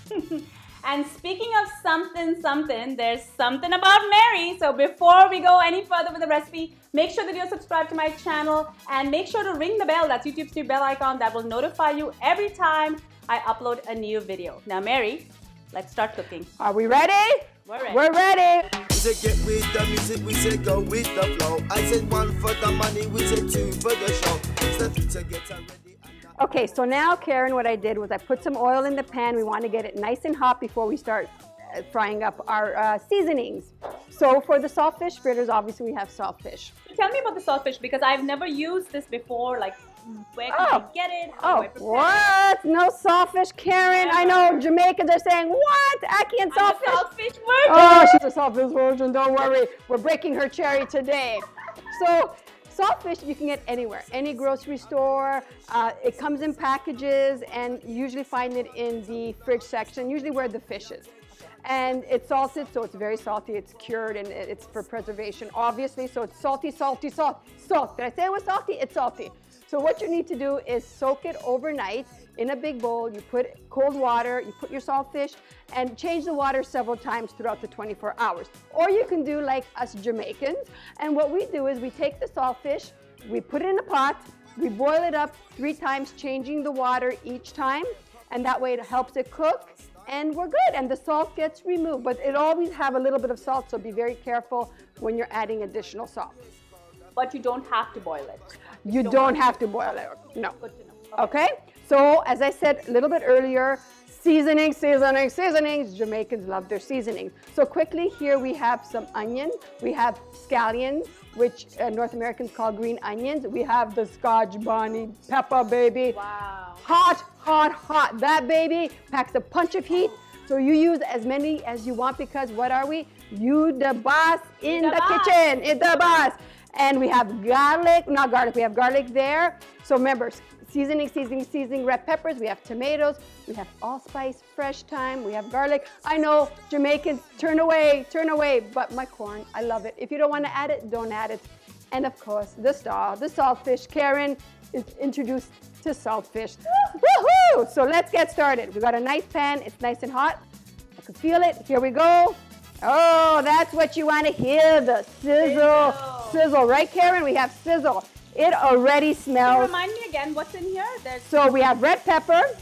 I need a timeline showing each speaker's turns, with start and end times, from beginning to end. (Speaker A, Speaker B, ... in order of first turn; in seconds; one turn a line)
Speaker A: 0.1-16.5
Speaker B: 16.6-18.7
Speaker A: 17.6-18.0
Speaker C: 18.9-26.3
Speaker B: 26.4-36.7
Speaker A: 36.9-42.3
Speaker B: 40.5-40.9
Speaker B: 41.4-47.0
Speaker A: 43.9-44.6
Speaker A: 46.5-48.2
Speaker B: 47.6-61.1
Speaker B: 61.6-96.4
Speaker A: 97.1-99.4
Speaker B: 98.8-100.5
Speaker A: 100.5-101.3
Speaker B: 101.2-116.2
Speaker A: 116.1-116.8
Speaker B: 116.8-150.4
Speaker A: 124.6-125.4
Speaker B: 151.0-159.7
Speaker A: 155.4-156.4
Speaker A: 159.4-161.3
Speaker B: 161.2-162.5